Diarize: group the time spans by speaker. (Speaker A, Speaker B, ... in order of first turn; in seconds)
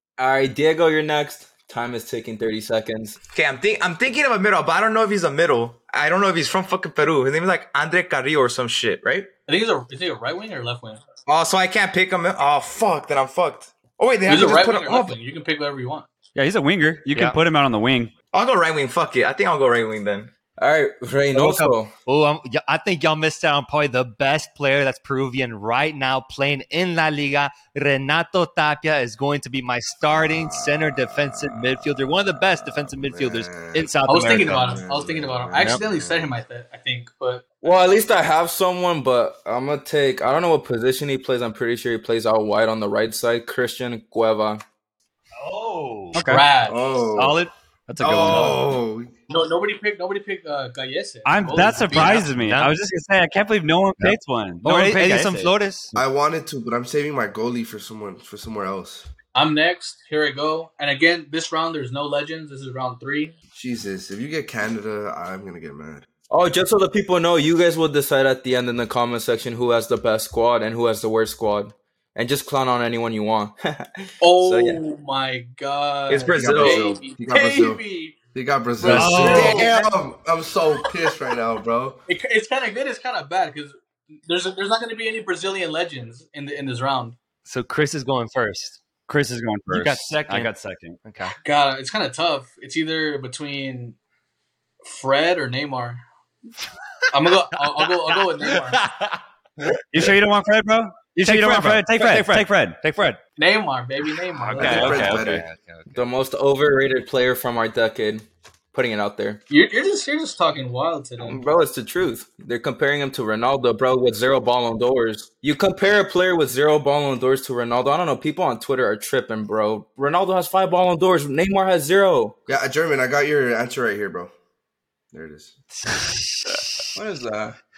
Speaker A: 0.2-3.2, 20.6-21.9, 37.6-44.6, 66.3-74.8, 76.1-77.0, 105.9-109.4, 111.2-122.4, 127.0-127.6
Speaker B: 3.3-9.3, 11.3-15.2, 18.3-20.3
Speaker C: 9.5-11.0, 14.3-16.1, 34.0-37.4, 46.2-46.9, 49.3-52.3, 59.3-63.4, 74.2-78.2, 78.9-79.7, 82.1-87.2, 91.4-94.0, 94.8-96.0, 97.1-98.8, 103.4-105.1, 109.5-111.5
Speaker D: 16.4-18.1, 46.1-46.4, 47.9-48.7, 51.3-56.0, 89.1-91.0, 99.9-102.8, 104.5-105.4, 125.9-126.9
Speaker E: 17.1-17.4, 21.3-34.8, 45.4-46.2, 47.2-47.5, 48.0-48.6, 51.9-52.8, 54.0-55.9, 78.8-79.7, 87.5-88.8, 89.7-90.5, 91.0-91.3, 97.6-99.2, 99.7-100.1, 101.2-103.2, 104.4-106.0
Speaker F: 30.1-36.3, 46.7-47.5, 48.0-49.1, 56.0-59.1, 63.5-66.1, 76.3-77.8, 78.3-82.0, 104.6-105.4, 122.5-124.3, 125.1-125.5